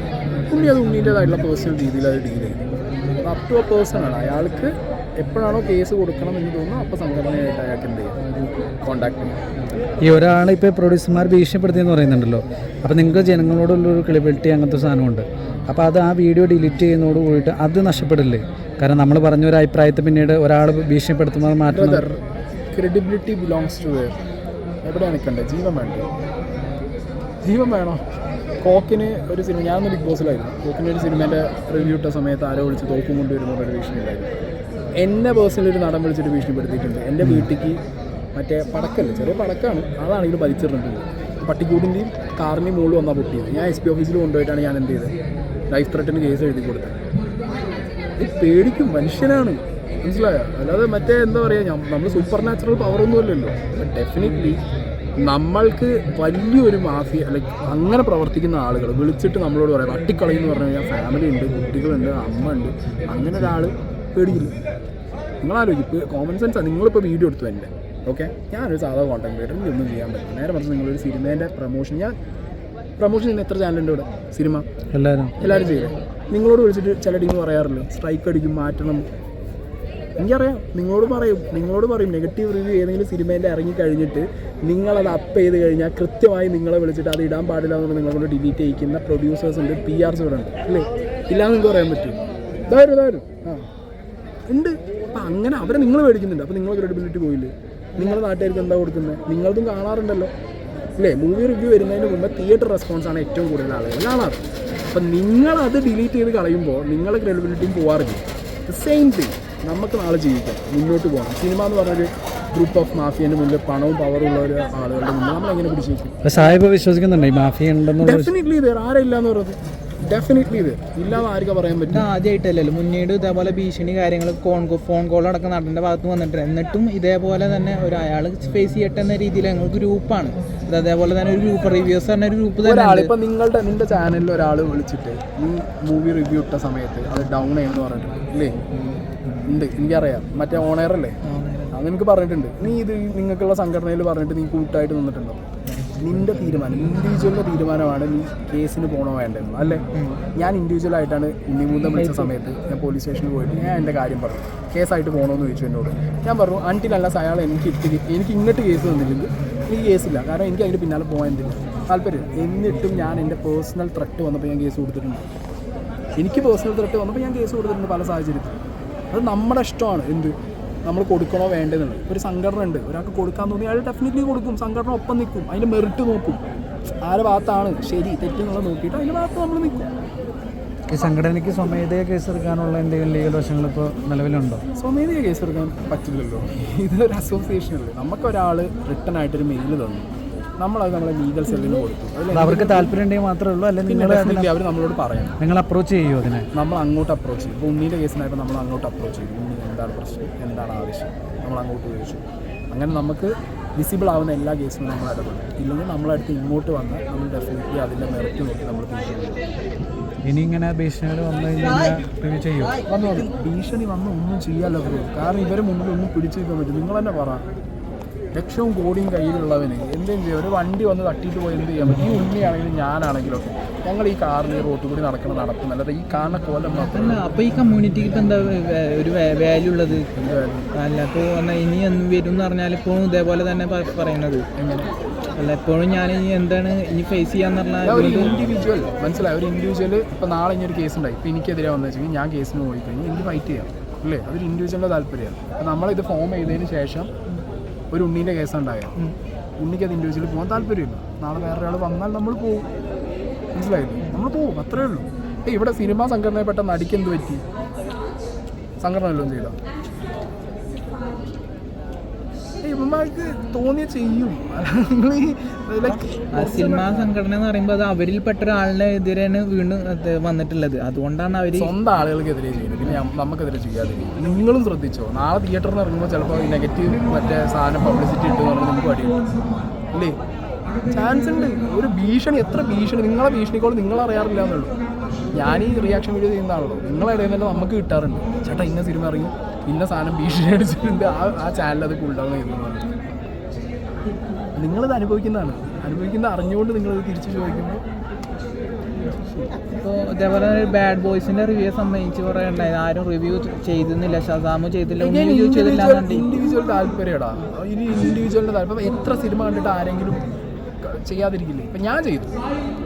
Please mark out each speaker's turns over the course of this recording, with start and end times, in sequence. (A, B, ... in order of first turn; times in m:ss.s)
0:00.5-0:02.6 A
0:03.2-0:08.2 A
0:08.8-0:09.6 A
0:10.0-0:22.0 B
0:21.7-0:22.2 A
0:22.7-0:24.2 A
0:24.8-0:26.1 A
0:27.4-0:28.0 A
0:28.6-0:34.3 A
0:35.0-0:37.8 A
0:38.3-0:45.1 A
0:45.7-0:47.0 A
0:48.2-0:54.6 A
0:55.2-1:04.5 A
1:05.4-1:12.2 A
1:13.0-1:14.6 A
1:14.9-1:15.3 B
1:15.4-1:19.0 A
1:20.2-1:33.6 A
1:34.5-1:40.3 A
1:41.0-1:56.5 A
1:56.2-1:58.3 B
1:58.0-2:02.1 A
2:01.9-2:13.1 C
2:12.6-2:18.6 A
2:19.5-2:21.2 A
2:21.2-2:21.8 C
2:21.7-2:25.4 A
2:26.0-2:29.8 A
2:29.9-2:30.2 C
2:30.3-2:45.2 A
2:32.0-2:32.3 C
2:46.2-2:48.6 A
2:49.1-2:50.3 A
2:50.9-2:56.4 A
2:57.0-2:59.9 A
3:00.9-3:04.6 B
3:04.7-3:10.1 A
3:10.6-3:13.0 A
3:12.3-3:14.5 B
3:13.9-3:15.4 A
3:15.4-3:16.5 B
3:16.5-3:29.4 A
3:30.3-3:32.7 B
3:32.9-3:37.4 A
3:38.3-3:47.3 A
3:46.9-3:50.1 C
3:50.1-3:50.7 A
3:50.7-3:54.4 C
3:54.6-3:54.9 A
3:55.4-3:58.4 C
3:57.8-4:07.1 A
4:07.9-4:08.9 A
4:09.6-4:12.6 A
4:13.5-4:17.4 A
4:18.8-4:19.5 A
4:22.6-4:27.1 A
4:26.3-4:31.7 C
4:31.6-4:39.2 A
4:40.9-4:44.7 A
4:45.3-4:52.9 A
4:54.6-4:57.8 A
4:59.7-5:06.3 C
5:05.0-5:10.2 A
5:10.8-5:12.3 A